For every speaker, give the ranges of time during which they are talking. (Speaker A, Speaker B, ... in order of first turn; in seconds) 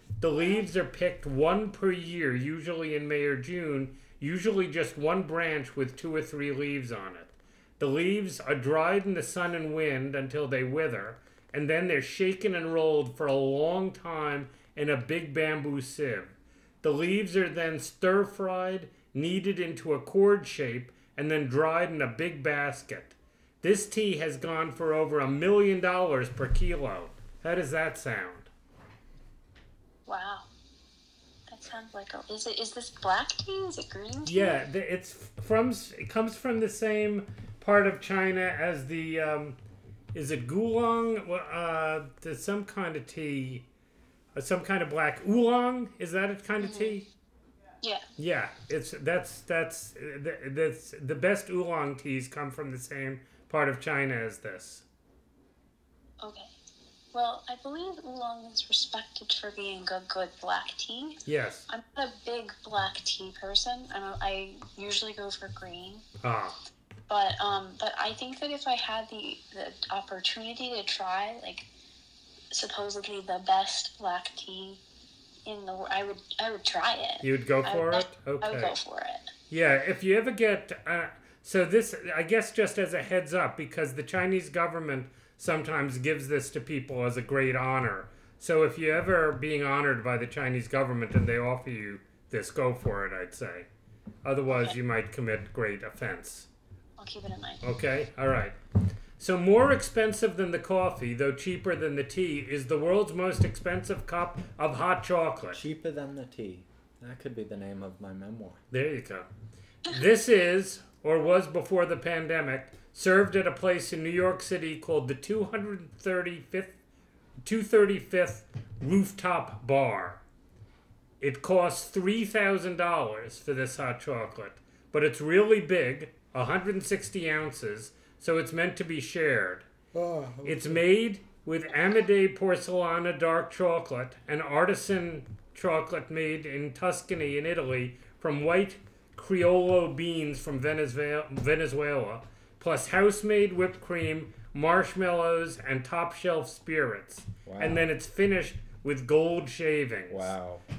Speaker A: 0.2-28.5, 34.2-39.6, 40.1-43.6, 44.3-47.1, 48.2-54.8, 61.2-61.6, 66.2-66.6, 77.2-78.8, 79.5-93.7, 94.2-96.5, 97.6-98.6, 99.2-105.6, 108.7-109.3, 109.8-116.8, 117.4-120.2, 121.2-129.7, 130.4-150.3
Speaker B: 30.1-30.5, 31.5-34.6, 46.6-47.0, 56.2-56.5, 57.1-66.0, 67.1-71.7, 72.5-74.8, 75.4-79.3, 94.5-94.8, 97.0-97.7
Speaker C: 105.5-108.6, 129.9-130.8, 147.4-147.9, 150.1-150.6